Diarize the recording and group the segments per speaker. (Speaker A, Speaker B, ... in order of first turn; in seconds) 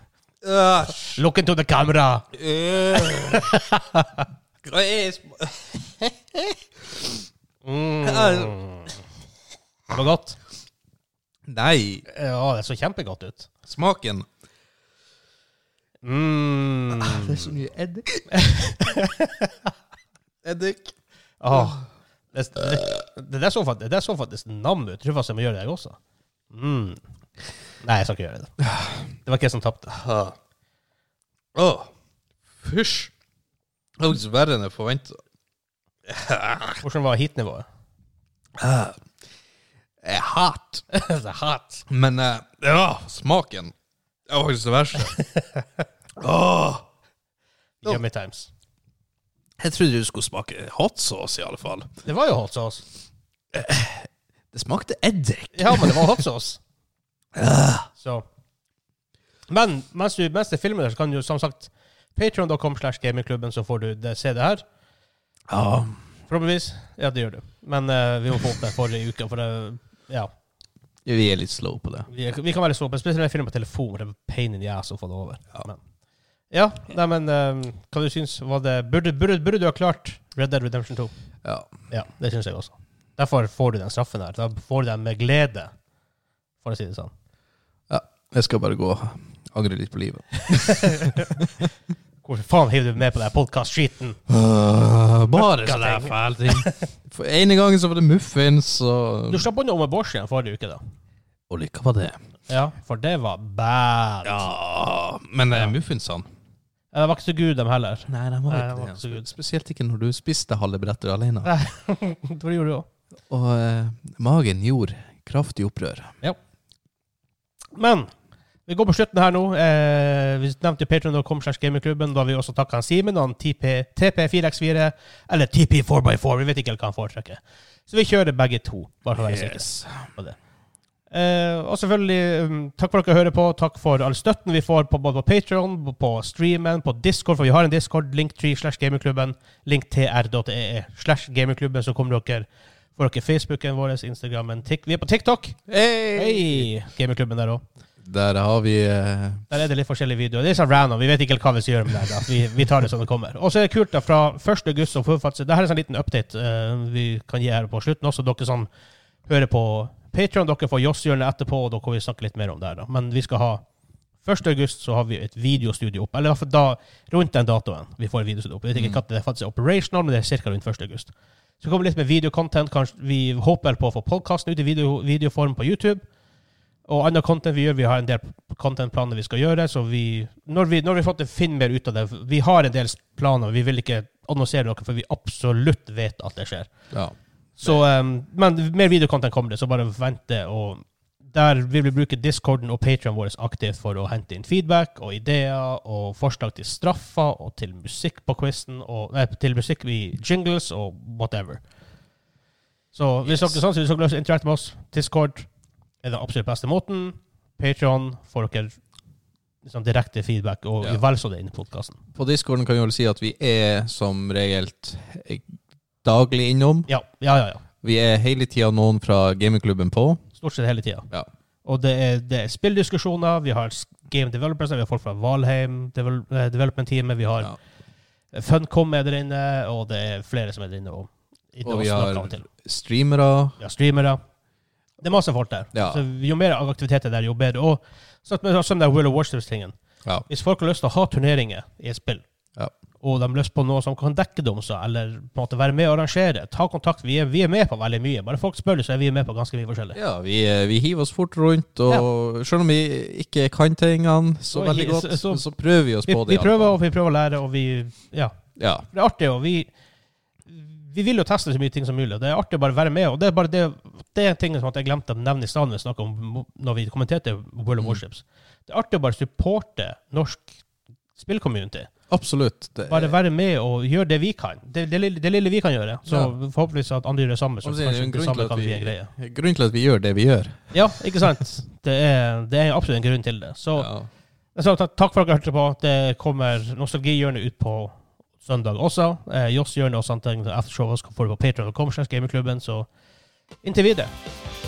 Speaker A: 0.4-1.2, 2.3-3.5, 4.6-6.1, 8.1-8.6, 11.5-12.1, 13.7-14.3, 16.9-19.0, 20.4-21.0, 21.5-21.9, 28.6-29.1, 31.6-31.9, 32.5-33.1, 34.0-35.2, 36.1-36.8, 38.6-39.0, 40.0-40.9, 41.9-43.7, 44.3-45.2, 46.2-46.9, 49.6-52.0, 53.5-56.2, 57.3-57.9, 65.5-66.0, 71.0-72.1, 81.4-81.7, 87.9-91.7, 94.3-99.5, 101.5-102.2, 104.2-106.3, 108.1-111.5, 113.3-116.2, 129.2-130.1, 145.7-146.7, 148.0-149.5, 168.8-169.0, 186.9-187.9, 203.2-203.6, 212.1-216.9, 217.8-220.2, 231.6-233.6, 235.7-236.1, 249.9-256.8, 258.6-258.9, 272.1-273.2, 276.1-276.3, 277.6-280.9, 283.8-284.1
Speaker B: 1.1-2.3, 3.0-4.2, 7.6-9.0, 9.9-10.4, 12.1-13.5, 16.0-17.5, 18.3-19.7, 21.4-26.0, 26.5-27.0, 27.8-28.6, 29.2-30.3, 36.8-37.7, 40.9-41.9, 45.1-45.6, 47.8-48.5, 52.0-52.9, 55.5-56.6, 58.0-58.2, 59.5-64.6, 66.3-70.3, 72.1-75.8, 76.5-81.1, 81.9-85.7, 86.6-87.1, 90.5-91.3, 92.2-94.2, 95.3-96.9, 99.3-100.8, 102.5-104.5, 106.9-109.3, 111.4-112.9, 117.8-118.1, 118.7-130.4, 131.1-147.6, 149.5-158.7, 159.2-163.7, 164.2-176.1, 176.9-201.7, 202.9-205.5, 206.0-208.8, 209.6-212.0, 216.9-217.6, 220.4-221.1, 221.7-227.6, 228.3-232.5, 233.6-234.2, 235.0-239.8, 240.3-242.2, 243.0-250.0, 254.5-255.5, 256.0-259.7, 260.5-270.6, 271.1-271.9, 272.9-279.1, 280.7-283.9, 284.6-292.9, 293.6-294.1